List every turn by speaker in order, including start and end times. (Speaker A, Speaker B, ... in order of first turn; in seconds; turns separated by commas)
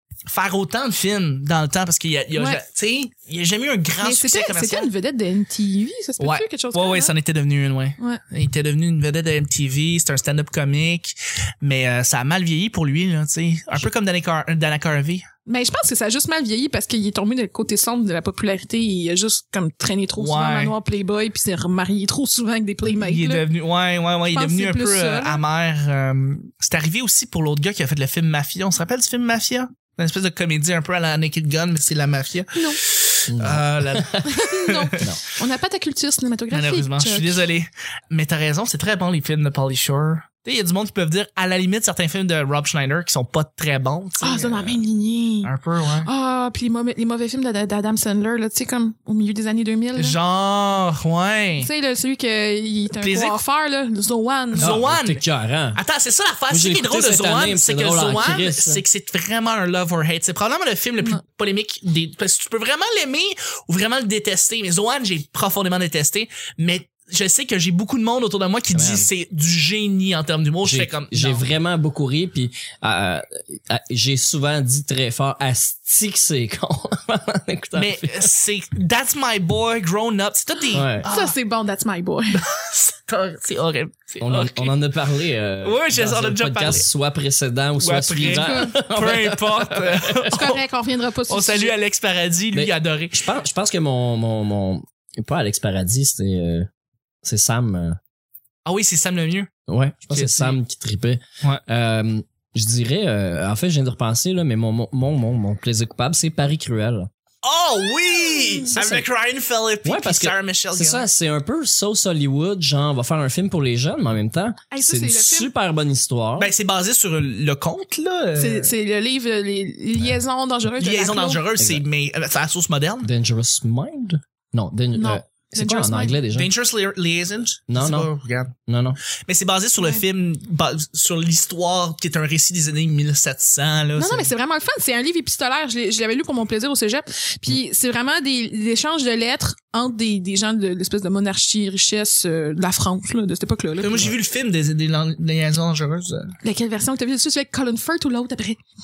Speaker A: 0.3-4.9, Speaker B: 2.4-2.6, Speaker B: 4.0-7.1, Speaker A: 6.2-15.3, Speaker B: 15.5-23.5, Speaker A: 20.2-20.7, Speaker A: 23.0-35.0, Speaker B: 24.3-25.4, Speaker C: 33.3-34.3, Speaker B: 34.2-37.4, Speaker A: 36.5-44.8, Speaker B: 44.2-45.5, Speaker A: 45.4-46.1, Speaker B: 46.0-50.2, Speaker A: 50.0-51.7, Speaker B: 51.6-54.7, Speaker A: 53.0-53.4, Speaker C: 54.6-55.8, Speaker A: 54.6-55.2, Speaker A: 55.8-71.5, Speaker C: 56.5-58.8, Speaker C: 68.7-69.1, Speaker C: 70.6-78.3, Speaker A: 77.8-81.3, Speaker C: 80.7-81.1, Speaker B: 81.1-82.4, Speaker A: 82.3-84.8, Speaker C: 84.2-90.3, Speaker A: 85.6-86.9, Speaker A: 87.8-90.6, Speaker B: 88.2-88.8, Speaker B: 90.3-91.7, Speaker A: 91.3-93.3, Speaker C: 92.5-96.7, Speaker C: 97.2-98.0, Speaker A: 98.7-99.5, Speaker C: 99.7-107.1, Speaker A: 100.1-100.6, Speaker A: 107.4-111.1, Speaker C: 108.7-109.1, Speaker C: 109.8-116.5, Speaker B: 114.7-115.5, Speaker A: 116.4-118.7, Speaker B: 118.4-121.5, Speaker A: 120.8-123.1, Speaker C: 121.6-121.8, Speaker C: 123.0-126.5, Speaker B: 125.0-126.2, Speaker A: 126.3-128.6, Speaker C: 127.7-129.0, Speaker A: 129.3-134.3, Speaker B: 134.0-144.1, Speaker A: 143.8-146.3, Speaker B: 146.4-148.6